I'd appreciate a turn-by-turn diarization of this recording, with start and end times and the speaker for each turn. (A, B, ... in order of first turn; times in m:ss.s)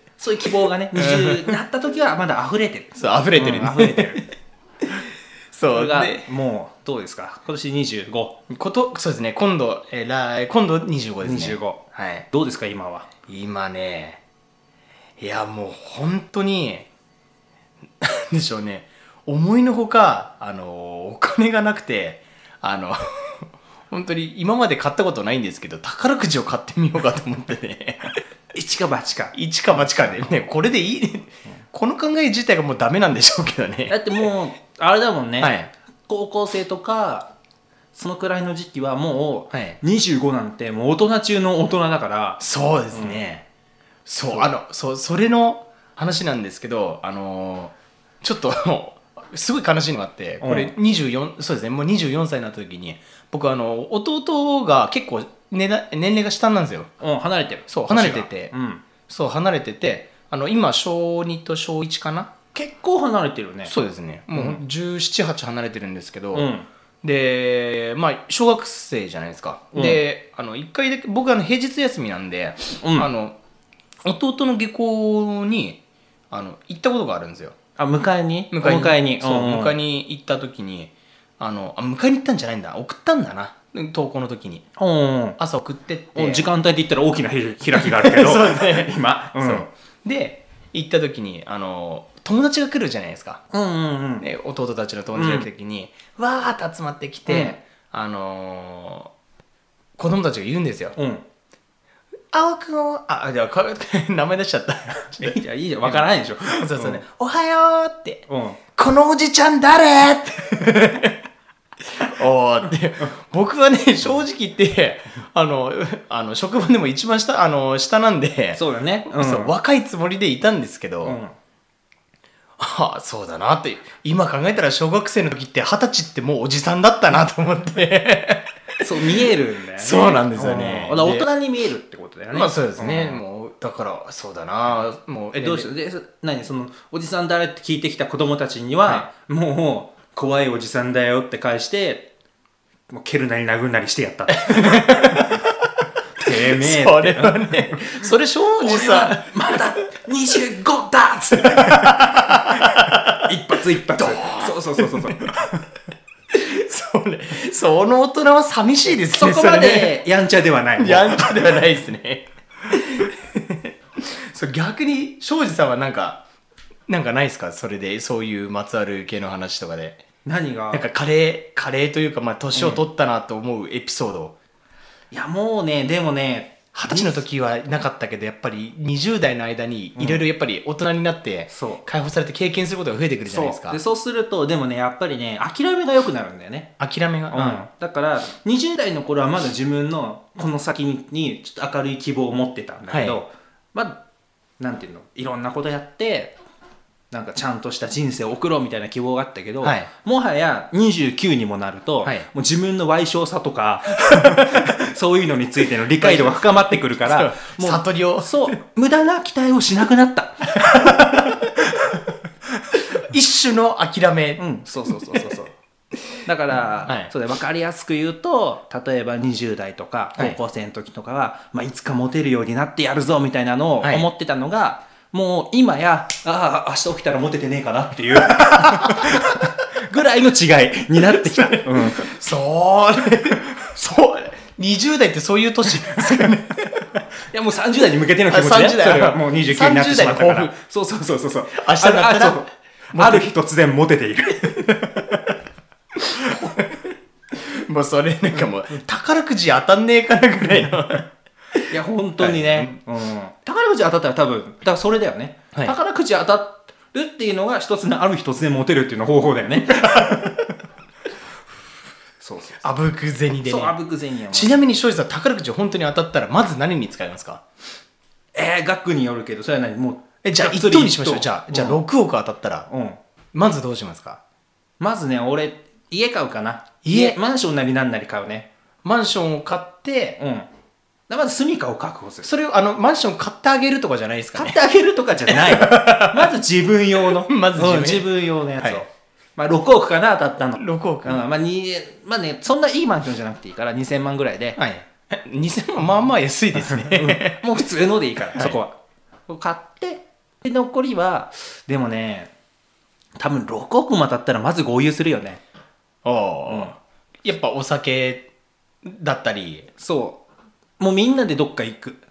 0:00.2-0:04.2 A
0:01.0-0:01.6 B
0:02.9-0:04.2 B
0:04.8-0:06.3 B
0:05.7-0:08.3 A
0:08.5-0:12.2 B
0:11.2-0:13.1 A
0:13.3-0:14.2 B
0:15.2-0:16.9 B
0:18.0-0:28.1 B
0:28.5-0:29.3 A
0:29.3-0:34.2 B
0:33.9-0:35.6 A
0:35.4-0:35.7 B
0:36.1-0:37.3 A
0:37.9-0:42.4 A
0:39.5-0:39.8 B
0:42.4-0:43.4 B
0:42.9-0:43.2 A
0:44.0-0:56.9 B
0:50.4-0:50.7 A
0:57.0-0:58.8 A
0:57.7-0:58.5 B
0:59.1-1:02.3 B
1:02.5-1:03.7 A
1:03.6-1:06.5 B
1:06.3-1:06.7 A
1:07.0-1:13.4 B
1:09.7-1:10.0 A
1:12.8-1:13.1 A
1:14.0-1:17.6 B
1:17.8-1:19.8 A
1:18.5-1:24.6 B
1:24.8-1:25.4 A
1:25.4-1:26.5 B
1:26.1-1:29.7 A
1:27.7-1:33.4 B
1:33.5-1:34.3 A
1:34.2-1:39.1 B
1:35.1-1:35.5 A
1:37.2-1:37.6 A
1:40.0-1:41.0 B
1:41.0-1:41.2 A
1:42.3-1:48.2 B
1:45.2-1:47.0 A
1:48.3-1:48.6 A
1:48.8-1:51.2 B
1:51.8-2:01.2 B
1:58.5-1:59.5 A
2:01.0-2:01.3 A
2:02.6-2:08.5 B
2:08.8-2:13.2 A
2:09.1-2:11.3 B
2:12.3-2:15.7 B
2:15.3-2:22.1 A
2:22.9-2:25.5 A
2:24.3-2:25.7 B
2:26.2-2:28.0 A
2:26.2-2:29.3 B
2:28.6-2:32.0 A
2:31.3-2:33.3 B
2:32.5-2:35.4 A
2:33.9-2:35.4 B
2:36.3-2:40.0 B
2:39.1-2:41.3 A
2:40.8-2:46.2 B
2:46.9-2:50.0 B
2:50.2-2:50.9 A
2:50.7-2:54.3 B
2:52.5-2:52.8 A
2:55.1-2:57.2 A
2:56.7-3:03.8 B
3:00.0-3:00.2 A
3:01.5-3:01.8 A
3:03.3-3:06.7 A
3:06.8-3:07.6 B
3:07.3-3:14.0 A
3:12.9-3:13.2 B
3:14.6-3:16.3 A
3:17.1-3:31.3 A
3:19.6-3:19.9 B
3:22.0-3:22.3 B
3:24.1-3:24.6 B
3:26.0-3:28.5 B
3:30.5-3:32.0 B
3:32.7-3:35.4 B
3:34.4-3:35.5 A
3:36.2-3:52.1 A
3:36.8-3:37.1 B
3:43.8-3:44.1 B
3:48.3-3:49.2 B
3:51.0-3:57.0 B
3:57.3-4:04.8 A
3:58.3-4:00.5 B
4:01.5-4:03.3 B
4:04.5-4:05.3 B
4:05.9-4:11.6 B
4:11.7-4:20.5 A
4:12.2-4:12.7 B
4:19.8-4:20.3 B
4:22.2-4:22.6 A
4:22.6-4:23.7 B
4:23.4-4:24.6 A
4:24.3-4:27.4 B
4:28.3-4:31.8 A
4:30.2-4:32.7 B
4:32.7-4:33.0 A
4:33.3-4:34.2 B
4:34.8-4:38.5 A
4:36.8-4:37.2 B
4:38.8-4:40.2 B
4:40.2-4:40.5 A
4:41.1-4:42.3 A
4:42.2-4:44.6 B
4:44.3-4:54.6 A
4:45.3-4:46.4 B
4:47.1-4:48.8 B
4:50.6-4:51.2 B
4:54.6-4:57.4 B
4:56.6-4:58.8 A
4:59.3-5:02.3 A
5:03.2-5:05.4 A
5:06.0-5:08.3 B
5:06.4-5:06.7 A
5:08.8-5:09.7 B
5:09.8-5:10.2 A
5:10.8-5:12.0 A